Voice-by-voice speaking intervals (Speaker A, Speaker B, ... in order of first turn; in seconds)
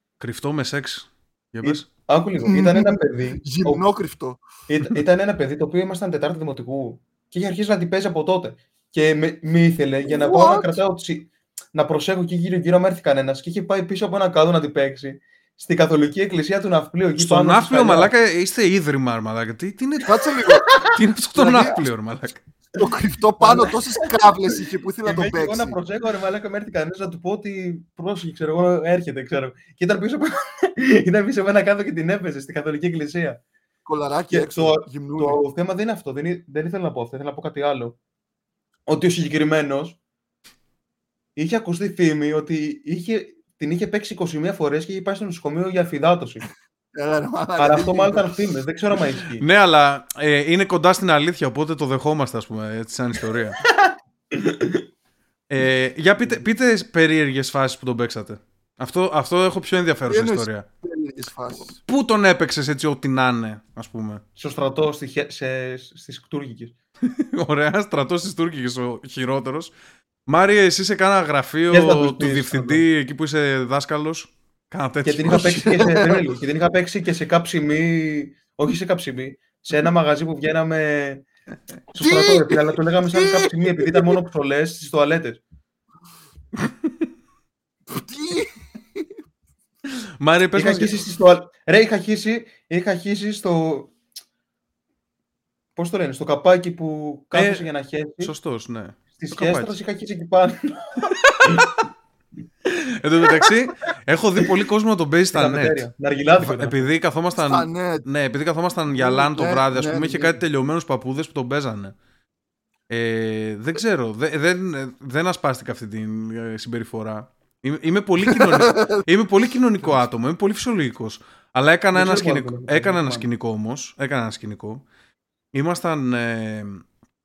Speaker A: 0.2-1.9, 17.2-20.1, 20.8-22.4, 49.3-53.6, 55.5-60.7, 61.8-64.2, 67.0-69.7, 70.3-75.5, 86.6-87.1, 89.8-90.9, 97.3-97.7, 98.2-99.8, 101.2-101.7, 102.7-112.0, 112.9-124.8, 125.5-126.8
Speaker B: 1.6-3.8, 4.7-18.1, 23.4-24.1, 25.1-33.4, 34.3-38.0, 38.9-40.0, 41.4-46.5, 47.6-49.5, 54.3-54.8, 64.4-66.8, 71.7-72.8, 75.0-81.2, 81.9-85.4, 90.6-93.9, 95.8-98.3, 99.2-101.7, 105.3-106.9, 121.9-123.3
Speaker C: 2.4-4.4, 10.1-10.8, 20.1-20.7, 21.3-21.8, 22.8-25.8, 33.9-35.4, 47.0-48.4, 60.1-61.8, 75.3-76.2, 82.0-84.2, 87.9-89.1, 107.4-108.0, 109.0-110.4, 118.3-119.0